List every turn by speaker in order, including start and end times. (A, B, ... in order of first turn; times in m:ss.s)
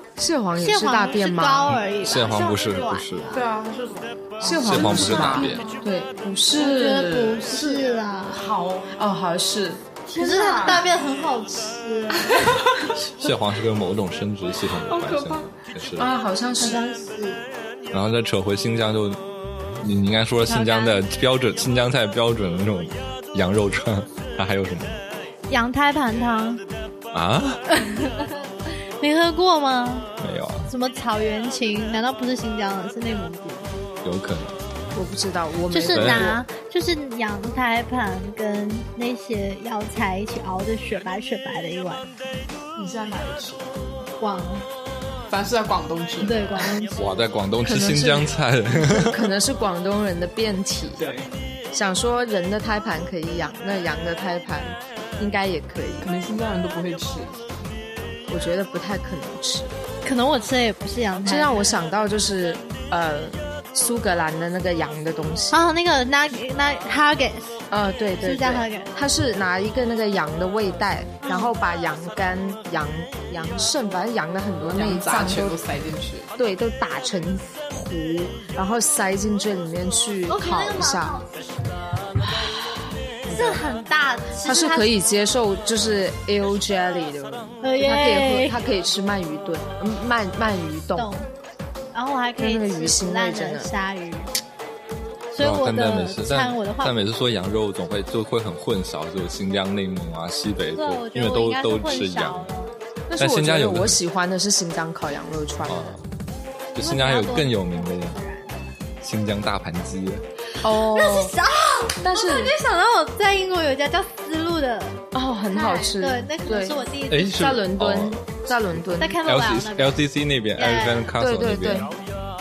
0:00.2-0:01.8 A
0:00.6-0:03.4 B
0:02.0-0:03.3 C
0:03.3-0:05.4 D
0:04.4-0:07.4 A
0:04.6-0:05.6 C
0:05.0-0:05.6 B
0:06.5-0:08.4 B
0:07.4-0:08.9 D
0:08.9-0:09.8 A
0:10.1-0:12.4 B
0:10.2-0:10.8 D
0:13.1-0:16.1 C
0:15.0-0:15.4 A
0:16.0-0:16.8 A
0:16.6-0:17.4 B
0:17.9-0:19.2 C
0:19.8-0:25.0 C
0:20.5-0:21.0 B
0:25.5-0:26.6 B
0:27.1-0:27.6 C
0:27.7-0:30.1 B
0:30.2-0:30.7 C
0:30.6-0:33.7 B
0:34.0-0:34.6 C
0:34.9-0:36.4 A
0:35.7-0:42.1 B
0:35.9-0:36.4 C
0:42.8-0:43.6 D
0:44.2-0:44.6 B
0:45.3-0:46.7 D
0:46.2-0:47.2 B
0:47.0-0:49.3 C
0:47.6-0:51.0 A
0:51.0-0:51.3 D
0:51.7-0:56.1 A
0:56.0-0:57.3 D
0:58.3-0:59.7 A
1:00.0-1:01.8 B
1:01.2-1:05.6 A
1:05.5-1:07.6 B
1:07.7-1:15.6 A
1:08.2-1:08.9 B
1:11.2-1:11.5 B
1:14.7-1:16.3 D
1:16.4-1:21.2 A
1:20.3-1:21.7 B
1:23.3-1:23.6 A
1:23.3-1:24.9 B
1:24.4-1:31.1 A
1:27.6-1:28.6 B
1:31.0-1:31.3 B
1:31.9-1:34.3 B
1:32.4-1:33.7 A
1:35.3-1:37.0 B
1:35.4-1:42.5 C
1:40.7-1:42.7 B
1:43.1-1:46.0 A
1:43.2-1:44.0 C
1:45.6-1:46.0 C
1:46.7-1:48.2 C
1:46.8-1:48.5 B
1:49.0-1:50.2 C
1:50.6-1:57.6 B
1:50.6-1:51.3 A
1:52.0-1:52.5 A
1:55.1-1:59.2 A
1:57.1-1:58.3 C
1:59.0-2:00.0 B
1:59.2-2:01.9 C
2:00.5-2:01.1 B
2:01.2-2:01.9 A